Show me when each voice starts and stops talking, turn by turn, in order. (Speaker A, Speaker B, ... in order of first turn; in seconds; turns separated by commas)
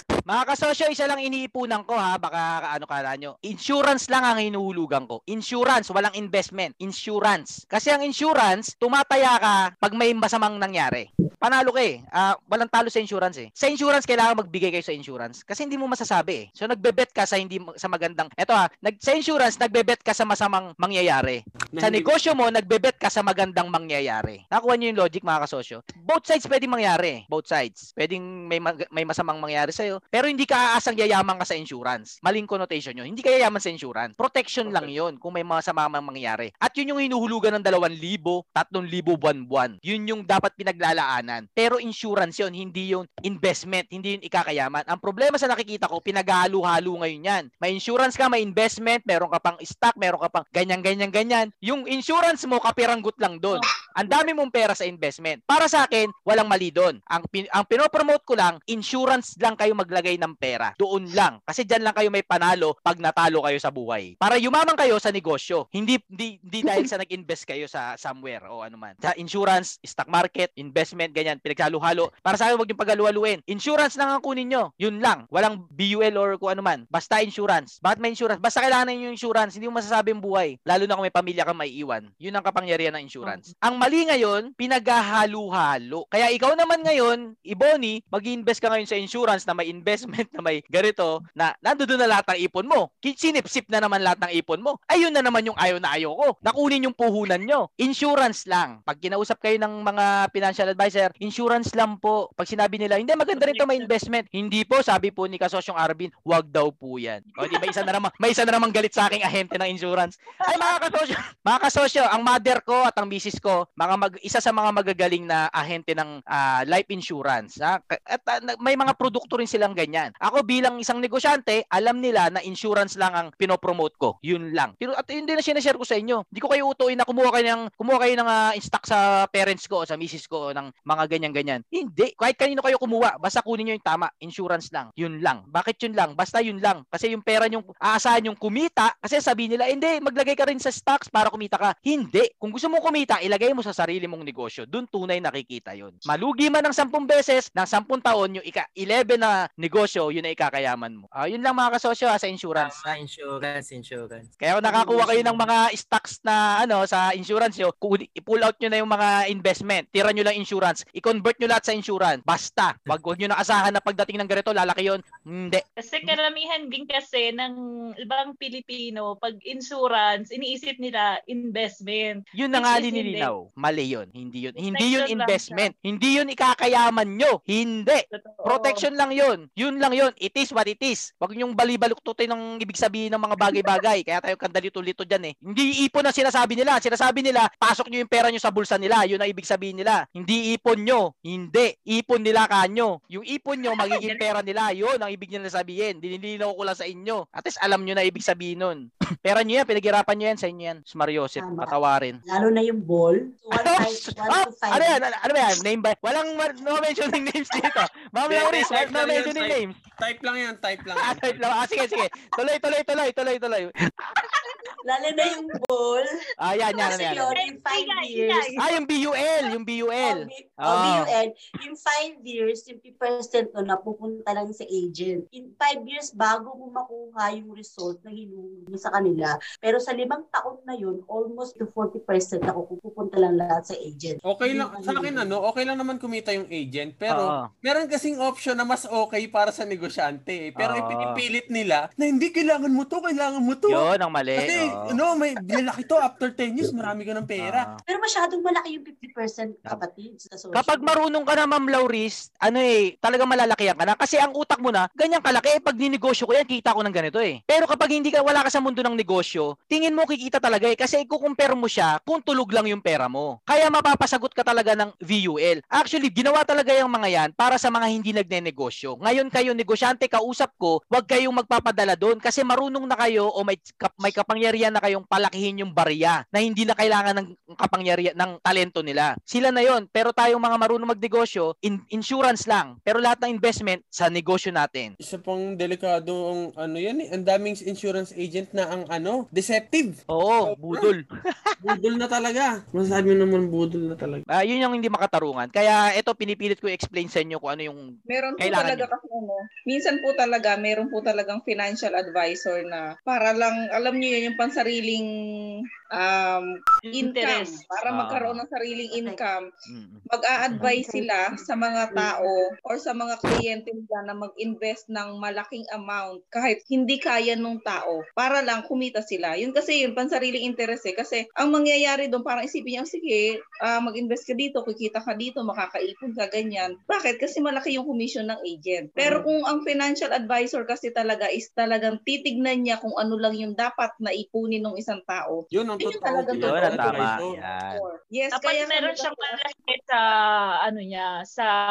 Speaker A: 0.3-152.9, Speaker B: 21.8-22.1, Speaker B: 34.6-34.9, Speaker C: 83.2-83.5, Speaker C: 103.3-103.9, Speaker C: 107.4-107.9, Speaker D: 152.5-155.5, Speaker A: 154.4-166.2, Speaker C: 165.8-167.5, Speaker C: 168.1-173.3, Speaker A: 172.3-202.2, Speaker C: 174.7-175.7, Speaker C: 178.1-178.9, Speaker C: 193.8-194.2, Speaker E: 201.4-205.0, Speaker A: 203.6-209.8, Speaker B: 208.3-211.4, Speaker A: 211.0-213.7, Speaker E: 214.8-216.1, Speaker A: 216.4-217.4, Speaker E: 216.8-218.6, Speaker C: 217.3-218.6, Speaker A: 218.6-221.1, Speaker E: 220.0-235.4, Speaker B: 234.2-247.7, Speaker A: 237.1-237.5, Speaker A: 240.6-241.2, Speaker A: 243.7-245.0, Speaker A: 247.4-247.8, Speaker E: 247.9-251.0, Speaker A: 250.5-284.9, Speaker B: 285.0-290.9, Speaker A: 290.1-291.6, Speaker B: 291.6-294.2, Speaker A: 294.3-297.9, Speaker F: 298.1-305.0, Speaker A: 298.4-298.9, Speaker F: 306.0-309.4, Speaker C: 306.9-307.6, Speaker A: 307.9-308.4, Speaker E: 308.9-309.2, Speaker A: 309.7-310.7, Speaker F: 310.1-339.4, Speaker E: 310.6-311.0, Speaker E: 311.9-312.3, Speaker B: 335.5-337.4, Speaker A: 336.3-337.8, Speaker C: 338.3-341.5